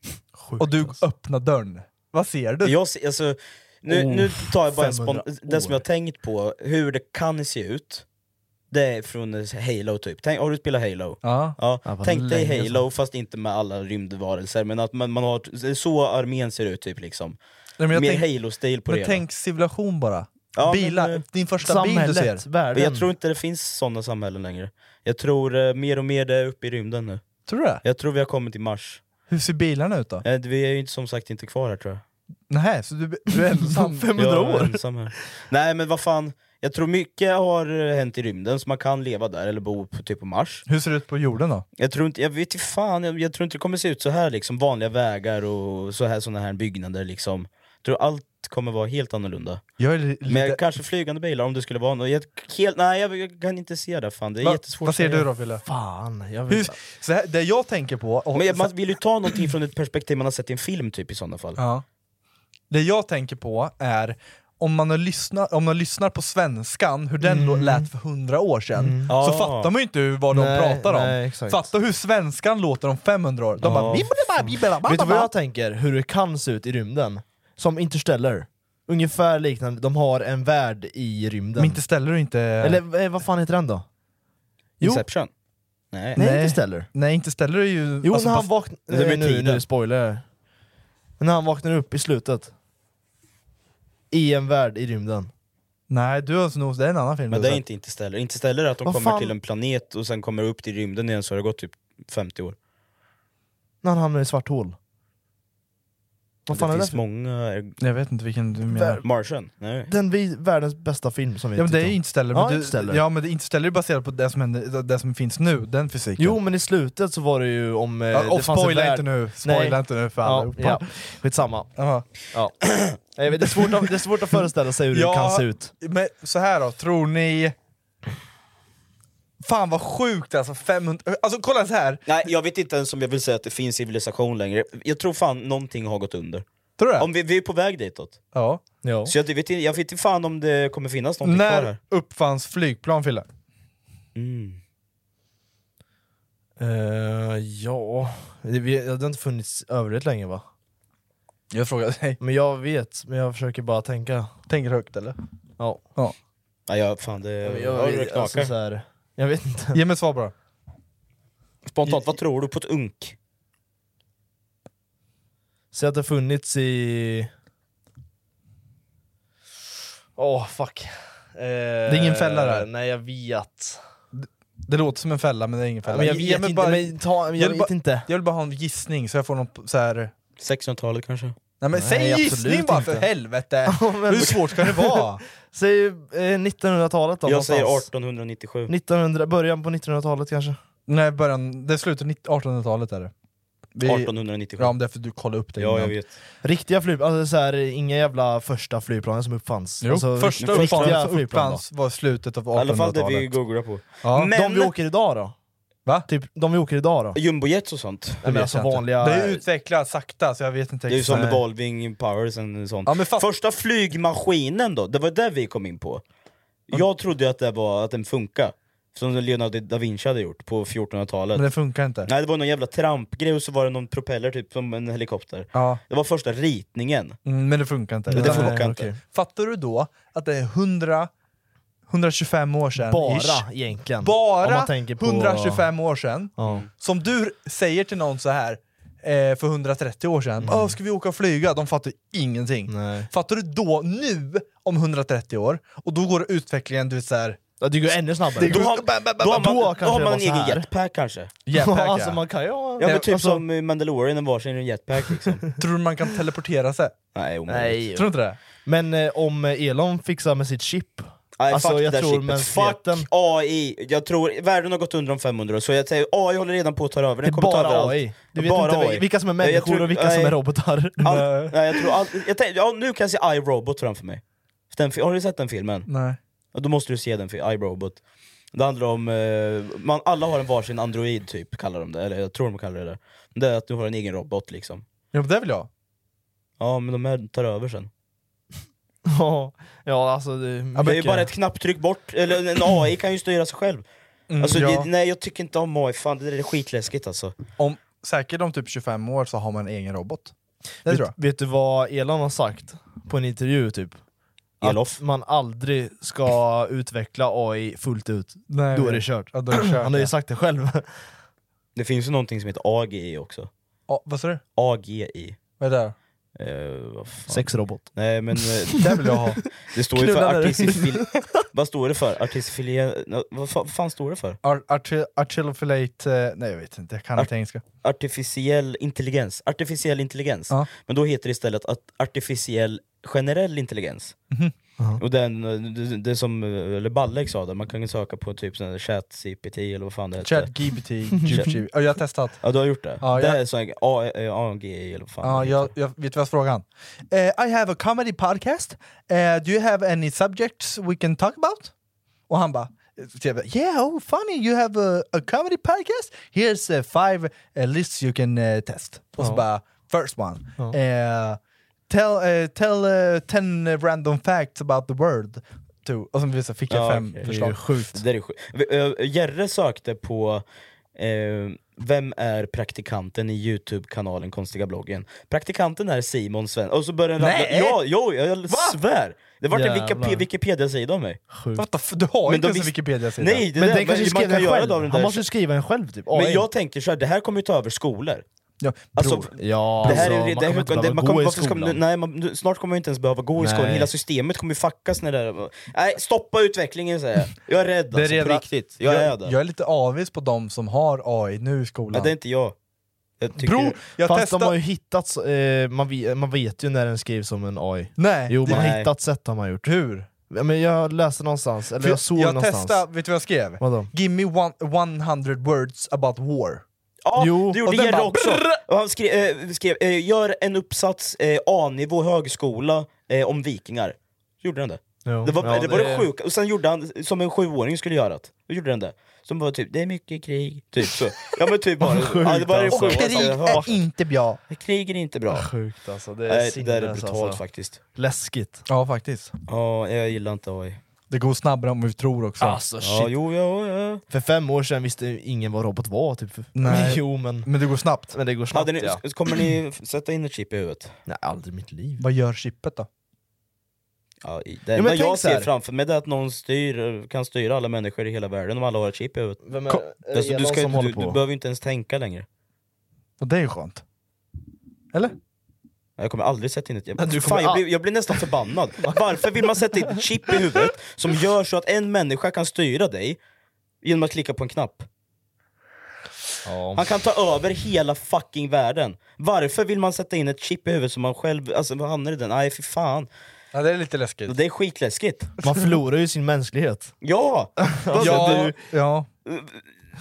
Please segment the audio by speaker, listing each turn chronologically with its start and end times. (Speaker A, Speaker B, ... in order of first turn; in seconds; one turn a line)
Speaker A: 0.4-1.0
Speaker B: 0.6-2.8
Speaker C: 2.6-8.0
Speaker A: 3.9-5.8
Speaker C: 8.7-17.4
Speaker B: 11.2-12.8
Speaker A: 11.8-12.7
Speaker B: 17.8-18.2
Speaker C: 17.9-19.2
Speaker B: 18.9-22.4
Speaker C: 20.5-21.2
Speaker A: 21.6-23.1
Speaker C: 22.7-27.2
Speaker B: 27.5-27.8
Speaker C: 27.8-29.0
Speaker B: 29.3-30.2
Speaker C: 30.2-32.0
Speaker B: 32.5-34.1
Speaker A: 33.8-34.8
Speaker C: 34.2-40.6
Speaker B: 40.7-41.6
Speaker C: 41.8-49.6
Speaker B: 49.8-50.6
Speaker C: 50.3-55.3
Speaker B: 54.4-55.6
Speaker A: 55.6-56.7
Speaker B: 56.5-58.7
Speaker C: 58.3-61.6
Speaker B: 61.5-61.8
Speaker B: 62.7-75.3
Speaker A: 67.2-67.9
Speaker A: 68.7-69.1
Speaker C: 69.1-69.7
Speaker A: 70.3-71.7
Speaker A: 73.6-74.0
Speaker C: 73.6-74.1
Speaker A: 74.8-81.8
Speaker B: 81.6-82.8
Speaker A: 82.6-83.8
Speaker A: 84.8-85.0
Speaker C: 84.8-85.3
Speaker C: 85.9-86.2
Speaker A: 86.2-86.9
Speaker B: 86.2-88.5
Speaker A: 88.0-90.2
Speaker C: 88.9-89.6
Speaker A: 91.2-92.5
Speaker A: 94.1-95.3
Speaker B: 95.9-97.6
Speaker C: 97.3-102.5
Speaker A: 98.8-99.3
Speaker A: 103.8-104.7
Speaker A: 106.5-107.0
Speaker C: 106.5-107.8
Speaker B: 107.8-109.0
Speaker A: 108.7-109.0
Speaker C: 109.0-109.9
Speaker A: 109.9-113.0
Speaker B: 111.5-116.4
Speaker A: 116.2-121.7
Speaker B: 118.1-120.9
Speaker B: 121.8-122.1
Speaker A: 122.3-125.7
Speaker B: 124.9-127.5
Speaker B: 129.4-132.0
Speaker C: 132.1-136.4
Speaker B: 136.8-137.1
Speaker C: 137.0-138.2
Speaker B: 138.3-138.6
Speaker A: 138.8-139.1
Speaker C: 139.1-141.8
Speaker B: 141.2-143.2
Speaker C: 144.1-144.6
Speaker A: 146.6-150.4
Speaker B: 151.5-152.2
Speaker A: 152.2-154.3
Speaker B: 154.5-155.2
Speaker A: 155.6-155.9
Speaker C: 156.7-158.5
Speaker A: 157.4-159.8
Speaker B: 159.7-160.3
Speaker C: 161.7-163.1
Speaker A: 165.7-167.3
Speaker A: 170.2-173.8
Speaker B: 171.8-172.7
Speaker B: 174.1-180.1
Speaker A: 175.8-178.1
Speaker C: 180.4-181.3
Speaker B: 181.6-185.2
Speaker A: 181.7-183.1
Speaker A: 183.7-187.9
Speaker C: 187.2-188.7
Speaker A: 188.7-190.6
Speaker B: 190.9-193.1
Speaker B: 193.7-195.9
Speaker C: 193.8-194.8
Speaker C: 195.6-196.1
Speaker A: 196.4-201.6
Speaker B: 199.8-203.4
Speaker C: 200.3-201.0
Speaker C: 202.5-204.7
Speaker B: 204.0-204.3
Speaker A: 204.3-205.3
Speaker A: 206.1-207.2
Speaker C: 207.1-208.2
Speaker A: 208.2-209.4
Speaker B: 208.2-211.4
Speaker C: 210.9-216.0
Speaker B: 212.8-213.2
Speaker C: 216.7-221.5
Speaker B: 221.3-222.1
Speaker C: 222.0-227.2
Speaker B: 225.5-225.8
Speaker B: 227.2-231.1
Speaker C: 228.1-228.9
Speaker A: 228.1-229.0
Speaker B: 231.9-233.4
Speaker A: 232.8-235.7
Speaker B: 234.0-247.4
Speaker A: 236.4-236.6
Speaker A: 240.4-240.7
Speaker A: 242.7-243.1
Speaker A: 247.6-250.7
Speaker B: 248.3-249.4
Speaker C: 248.4-251.3
Speaker B: 251.5-252.2
Speaker A: 251.5-253.4
Speaker C: 252.8-255.4
Speaker B: 252.8-253.3
Speaker B: 255.6-256.9
Speaker C: 257.1-257.8
Speaker A: 257.5-258.1
Speaker B: 257.9-258.4
Speaker A: 258.6-263.1
Speaker C: 261.4-270.4
Speaker A: 267.2-271.1
Speaker B: 271.0-271.6
Speaker C: 271.0-274.2
Speaker C: 274.7-275.9
Speaker B: 275.9-276.2
Speaker C: 276.5-278.0
Speaker C: 278.5-284.8
Speaker B: 285.1-285.7
Speaker C: 286.6-287.9
Speaker A: 289.1-291.3
Speaker B: 290.7-291.3
Speaker C: 290.8-293.8
Speaker B: 294.3-294.9
Speaker C: 294.4-297.3
Speaker B: 297.6-300.3
Speaker B: 300.8-301.1
Speaker A: 300.9-304.0
Speaker C: 304.6-305.0
Speaker A: 304.6-311.0
Speaker B: 308.5-310.1
Speaker C: 311.7-313.5
Speaker B: 313.9-314.4
Speaker C: 314.6-315.4
Speaker B: 315.6-315.9
Speaker C: 316.4-319.0
Speaker A: 317.3-317.9
Speaker A: 318.7-321.4
Speaker B: 318.8-319.4
Speaker C: 319.7-324.4
Speaker B: 324.4-327.6
Speaker C: 327.8-334.1
Speaker C: 335.0-340.5
Speaker B: 340.2-342.4
Speaker C: 341.2-341.6
Speaker C: 342.4-345.7
Speaker B: 343.0-343.4
Speaker B: 345.2-351.7
Speaker B: 352.3-361.4
Speaker A: 359.2-359.4
Speaker B: 361.9-367.8
Speaker C: 366.7-367.4
Speaker A: 367.2-368.0
Speaker C: 367.9-370.4
Speaker C: 370.9-381.2
Speaker B: 377.2-377.8
Speaker B: 378.5-378.8
Speaker A: 379.5-380.2
Speaker A: 381.3-381.6
Speaker B: 381.5-383.5
Speaker C: 382.2-385.2
Speaker A: 383.5-386.5
Speaker C: 386.1-388.2
Speaker B: 388.6-389.3
Speaker C: 388.9-399.3
Speaker A: 389.4-391.8
Speaker B: 389.8-390.2
Speaker A: 393.4-393.9
Speaker B: 397.9-402.1
Speaker C: 401.9-402.5
Speaker C: 403.2-403.9
Speaker B: 403.4-404.6
Speaker A: 404.0-412.8
Speaker B: 408.0-408.7
Speaker C: 408.5-408.9
Speaker B: 409.6-410.1
Speaker B: 411.8-416.6
Speaker A: 413.6-413.9
Speaker C: 417.0-433.7
Speaker A: 417.1-417.6
Speaker B: 417.7-418.4
Speaker A: 425.0-426.1
Speaker A: 431.8-433.8
Speaker B: 432.7-434.4
Speaker C: 434.5-435.5
Speaker A: 435.3-437.4
Speaker C: 436.3-437.8
Speaker A: 437.9-438.6
Speaker B: 438.7-439.3
Speaker C: 439.5-440.8
Speaker B: 441.1-442.6
Speaker A: 442.4-443.1
Speaker C: 442.8-444.0
Speaker A: 444.1-447.5
Speaker B: 446.5-448.2
Speaker A: 448.1-449.0
Speaker C: 448.5-450.9
Speaker A: 451.1-452.0
Speaker B: 452.0-452.9
Speaker C: 454.2-459.4
Speaker A: 454.7-455.5
Speaker A: 459.4-461.2
Speaker C: 460.1-462.2
Speaker B: 463.2-463.8
Speaker C: 466.0-473.2
Speaker A: 467.0-467.6
Speaker A: 468.8-469.1
Speaker C: 473.8-474.9
Speaker A: 476.4-476.9
Speaker C: 476.7-483.1
Speaker B: 483.5-484.3
Speaker C: 484.2-485.3
Speaker B: 485.4-485.8
Speaker A: 485.4-486.9
Speaker C: 487.0-488.5
Speaker A: 487.6-488.6
Speaker B: 487.9-489.1
Speaker C: 489.2-489.6